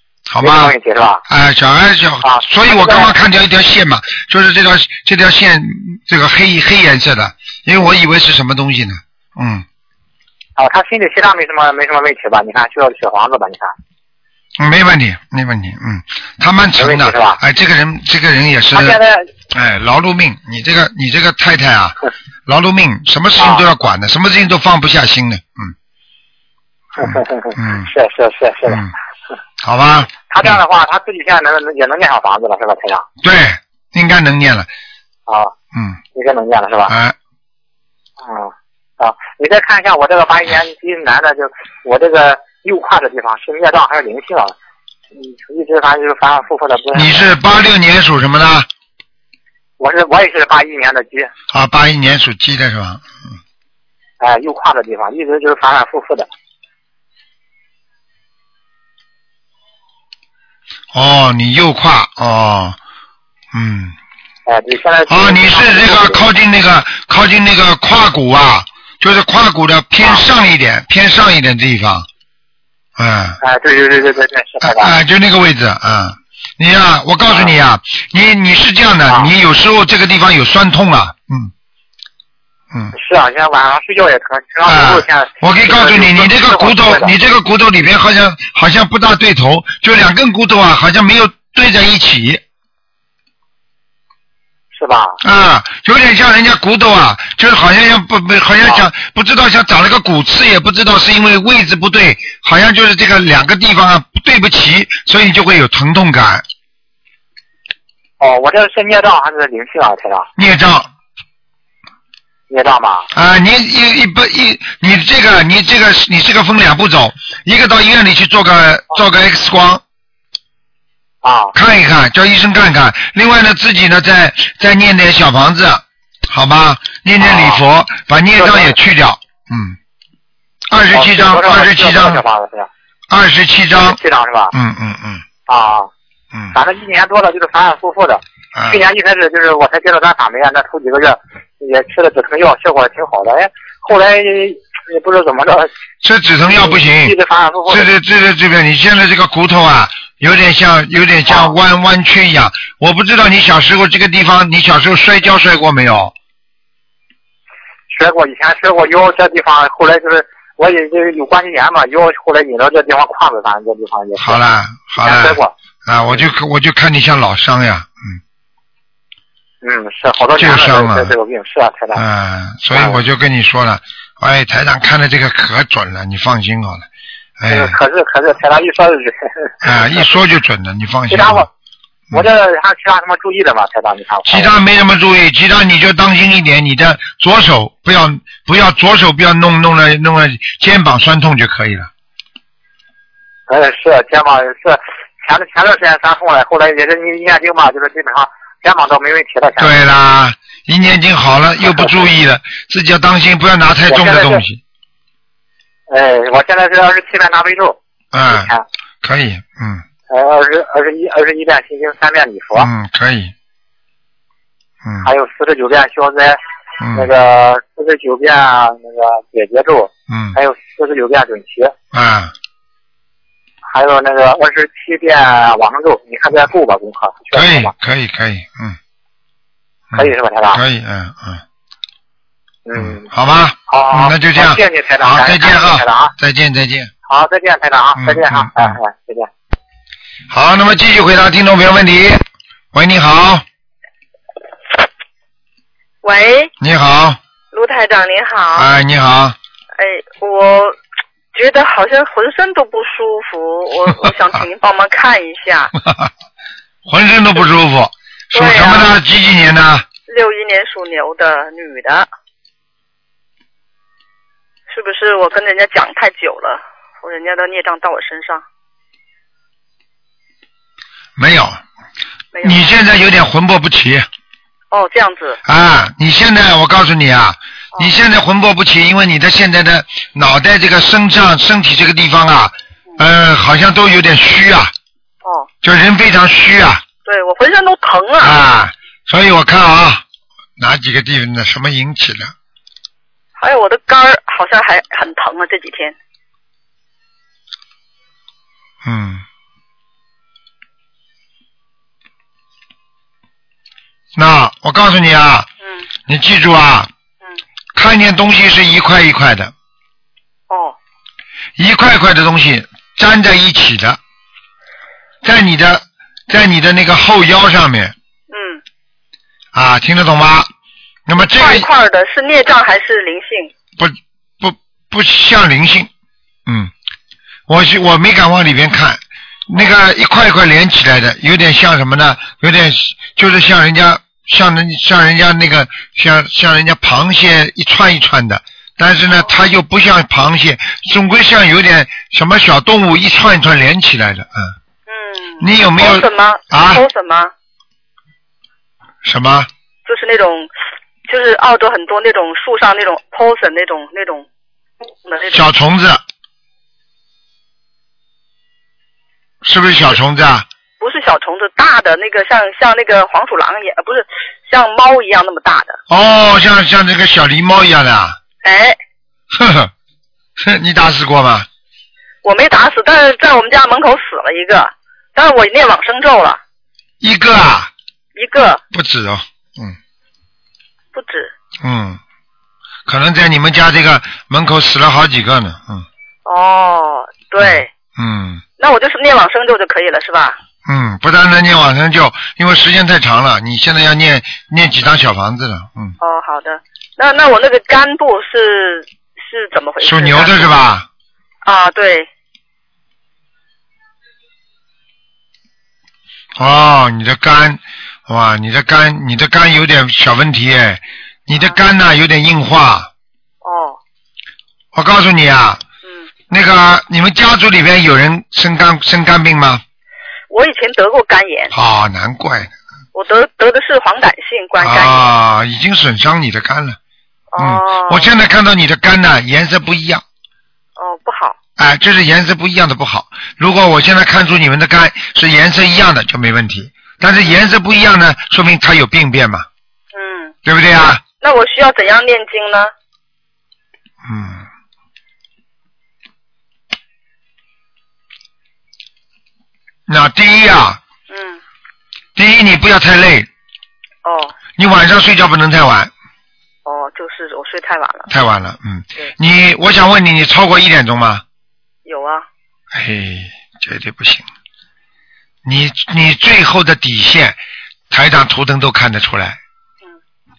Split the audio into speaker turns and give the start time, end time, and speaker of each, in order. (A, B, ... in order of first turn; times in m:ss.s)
0:00.3-0:00.8 A
0:00.4-0:01.2 B
0:01.3-0:09.6 A
0:02.2-0:03.1 B
0:10.6-0:13.7 B
0:14.6-0:19.0 A
0:16.8-0:17.4 B
0:18.7-0:19.3 B
0:19.5-0:22.0 A
0:22.5-0:25.7 A
0:23.4-0:23.6 B
0:27.0-0:28.9 B
0:27.0-0:27.9 A
0:29.6-0:30.6 A
0:30.3-0:33.1 B
0:33.2-0:34.7 A
0:35.3-0:35.5 B
0:35.7-0:36.0 A
0:36.1-0:36.9 B
0:36.9-0:37.2 A
0:38.2-0:44.5 B
0:45.1-0:47.3 B
0:46.9-0:48.7 A
0:49.8-0:51.3 B
0:51.5-0:53.0 A
0:54.2-0:56.3 B
1:00.9-1:02.8 A
1:03.5-1:04.0 A
1:04.5-1:06.2 B
1:05.1-1:12.1 A
1:13.0-1:13.4 A
1:13.4-1:15.0 B
1:14.6-1:21.5 A
1:17.3-1:17.5 B
1:22.9-1:27.1 B
1:24.6-1:32.4 A
1:34.7-1:35.2 B
1:35.2-1:46.5 A
1:48.2-1:50.3 B
1:50.4-1:50.9 A
1:52.5-1:53.1 B
1:53.1-1:59.8 A
2:01.2-2:01.5 B
2:01.5-2:09.8 A
2:07.2-2:07.6 B
2:08.4-2:08.8 B
2:10.7-2:12.2 A
2:10.9-2:12.7 B
2:13.1-2:14.0 A
2:13.7-2:14.5 B
2:14.5-2:15.2 A
2:15.5-2:15.9 B
2:16.5-2:25.7 B
2:18.5-2:18.8 A
2:26.0-2:27.2 A
2:26.5-2:27.9 B
2:27.7-2:36.1 A
2:31.3-2:31.6 B
2:37.9-2:44.4 B
2:44.2-2:48.2 A
2:45.0-2:46.2 B
2:49.6-2:52.0 B
2:50.4-2:51.1 A
2:52.0-2:56.9 A
2:52.7-2:53.0 B
2:57.4-2:57.8 A
2:57.5-3:00.1 B
2:59.6-3:01.5 A
3:01.1-3:01.5 B
3:02.1-3:04.5 B
3:04.3-3:11.9 A
3:13.5-3:19.8 B
3:19.6-3:24.6 A
3:21.7-3:22.1 B
3:23.9-3:24.4 B
3:25.9-3:27.8 B
3:28.1-3:28.5 A
3:28.3-3:28.6 B
3:29.0-3:29.8 A
3:30.1-3:32.7 B
3:32.6-3:33.3 A
3:34.8-3:35.1 A
3:35.0-3:36.4 B
3:36.8-3:37.1 A
3:36.9-3:41.7 B
3:40.1-3:40.4 A
3:41.9-3:42.3 A
3:43.7-3:47.7 B
3:47.3-3:48.8 A
3:49.9-3:51.4 A
3:49.9-3:50.6 B
3:52.7-3:53.0 B
3:52.8-3:56.9 A
3:53.7-3:56.1 B
3:57.1-3:59.3 B
3:58.0-3:58.8 A
4:00.3-4:03.4 A
4:06.0-4:06.5 C
4:06.6-4:07.2 A
4:07.5-4:08.7 C
4:08.6-4:09.4 A
4:09.8-4:10.8 C
4:11.3-4:15.7 C
4:16.9-4:19.9 A
4:18.3-4:18.9 C
4:20.1-4:22.1 C
4:24.7-4:28.4 C
4:31.2-4:31.6 A
4:32.3-4:32.7 C
4:32.4-4:34.1 A
4:34.7-4:35.4 C
4:35.5-4:44.7 A
4:45.2-4:45.5 C
4:45.6-4:46.8 A
4:47.0-4:48.4 C
4:48.2-4:50.0 A
4:50.6-4:52.3 A
4:53.4-4:56.0 C
4:58.8-4:59.2 A
5:04.2-5:05.5 A
5:06.1-5:06.9 A
5:07.8-5:09.5 A
5:10.5-5:10.8 C
5:11.6-5:14.0 A
5:15.2-5:17.9 A
5:18.3-5:18.6 C
5:19.5-5:20.5 A
5:21.1-5:21.7 A
5:21.3-5:23.5 C
5:23.8-5:25.9 A
5:26.5-5:26.7 A
5:27.5-5:44.5 A
5:44.9-5:47.3 C
5:45.4-5:46.8 A
5:49.0-5:49.5 A
5:49.9-5:50.5 C
5:51.1-5:54.3 C
5:55.0-5:55.4 C
5:55.3-5:56.0 A
5:59.4-6:00.5 A
6:00.8-6:05.8 C
6:05.9-6:08.2 A
6:08.4-6:08.8 C
6:09.3-6:09.7 A
6:10.4-6:11.5 A
6:12.2-6:16.4 C
6:17.0-6:17.7 A
6:18.2-6:18.6 C
6:18.7-6:19.8 A
6:20.9-6:21.3 C
6:21.6-6:22.0 A
6:22.9-6:25.9 A
6:26.3-6:27.7 C
6:27.4-6:28.4 A
6:28.6-6:30.4 C
6:30.7-6:36.0 A
6:36.0-6:40.5 C
6:39.8-6:40.9 A
6:41.4-6:42.1 C
6:46.4-6:52.9 A
6:53.4-6:53.8 C
6:54.7-6:55.6 A
6:55.8-6:56.1 C
6:56.3-6:59.6 A
7:00.3-7:01.5 C
7:01.5-7:02.5 A
7:02.9-7:05.1 C
7:04.6-7:06.8 A
7:07.3-7:08.1 C
7:07.4-7:10.0 A
7:10.8-7:11.4 C
7:11.6-7:19.5 A
7:19.9-7:20.4 C
7:20.5-7:21.0 A
7:21.1-7:22.7 C
7:24.0-7:24.4 A
7:29.9-7:30.8 A
7:31.1-7:31.4 C
7:32.2-7:33.3 A
7:34.0-7:34.4 C
7:34.6-7:35.9 A
7:36.6-7:38.1 C
7:38.1-7:41.2 A
7:41.9-7:42.3 C
7:42.7-7:44.3 A
7:45.4-7:47.4 A
7:47.9-7:49.4 A